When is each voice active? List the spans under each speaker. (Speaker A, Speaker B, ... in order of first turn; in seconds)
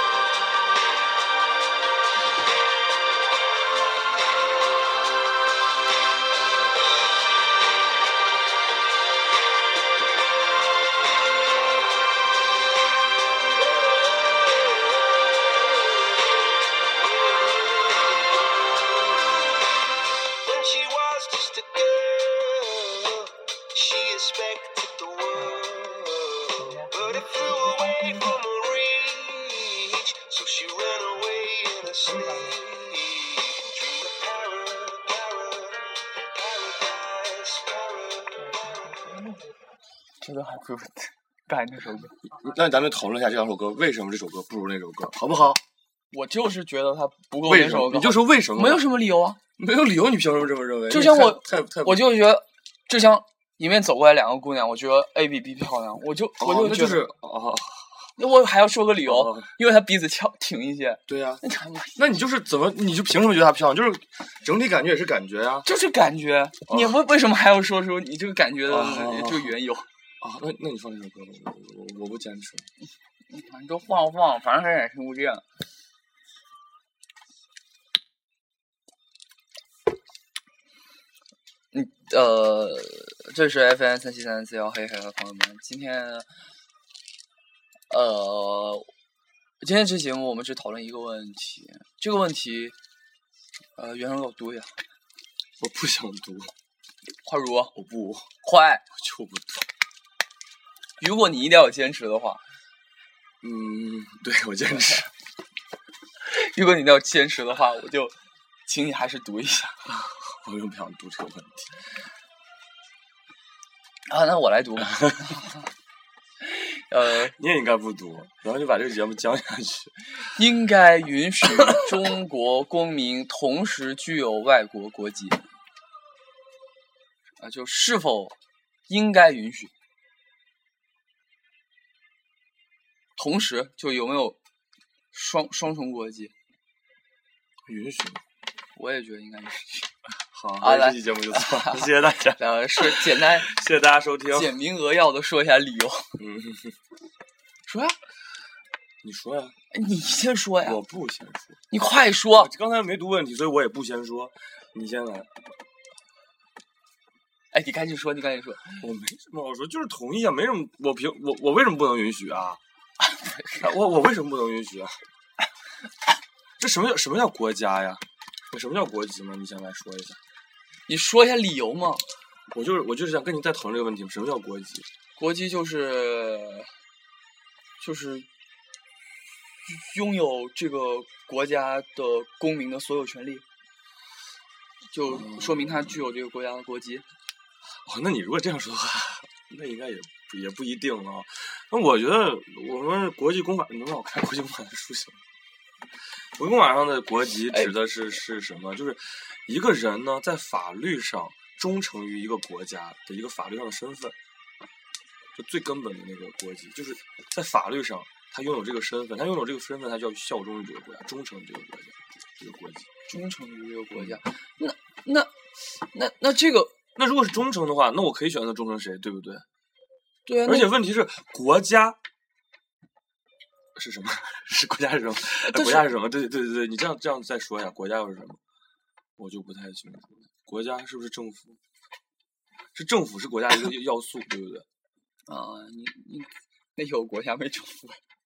Speaker A: 17.5-17.9, 20.4-38.2
Speaker B: 27.5-27.8, 32.4-32.9, 42.3-45.6, 47.5-48.8, 49.6-52.0, 56.4-58.1, 59.0-59.5, 61.1-61.4, 62.0-65.7, 66.7-66.9, 68.7-69.6, 70.2-72.7, 95.6-96.5, 97.7-98.3, 98.9-99.7, 103.4-105.1, 109.9-111.7, 117.3-120.3, 137.7-138.2, 140.3-144.5, 146.2-146.7, 149.0-149.5, 150.6-151.6, 152.3-155.3, 158.8-162.6, 163.5-165.0, 166.6-170.2, 172.5-174.8, 185.1-185.9, 187.8-195.2, 196.4-204.2, 205.3-212.9, 213.9-214.2, 216.9-219.4, 220.4-222.0, 223.8-228.4, 229.2-231.6, 232.7-234.6
Speaker C: 40.2-42.2, 46.1-49.4, 50.9-57.0, 58.2-62.0, 65.6-69.9, 73.3-75.4, 81.7-86.3, 87.9-88.9, 89.6-92.7, 93.8-94.7, 97.2-97.7, 98.4-98.8, 101.0-102.4, 104.7-105.0, 106.2-108.1, 108.7-109.8, 114.1-115.6, 116.4-117.3, 120.3-125.4, 127.4-128.3, 128.9-129.7, 133.2-134.4, 135.1-136.3, 138.7-139.9, 140.6-143.5, 144.3-146.1, 147.7-147.9, 149.7-150.8, 151.7-152.5, 157.5-158.8, 163.1-163.6, 170.9-172.0, 175.2-176.7, 177.8-178.3, 179.6-183.4, 184.9-187.0, 213.1-216.8, 220.3-220.7, 225.5-225.9, 235.3-238.0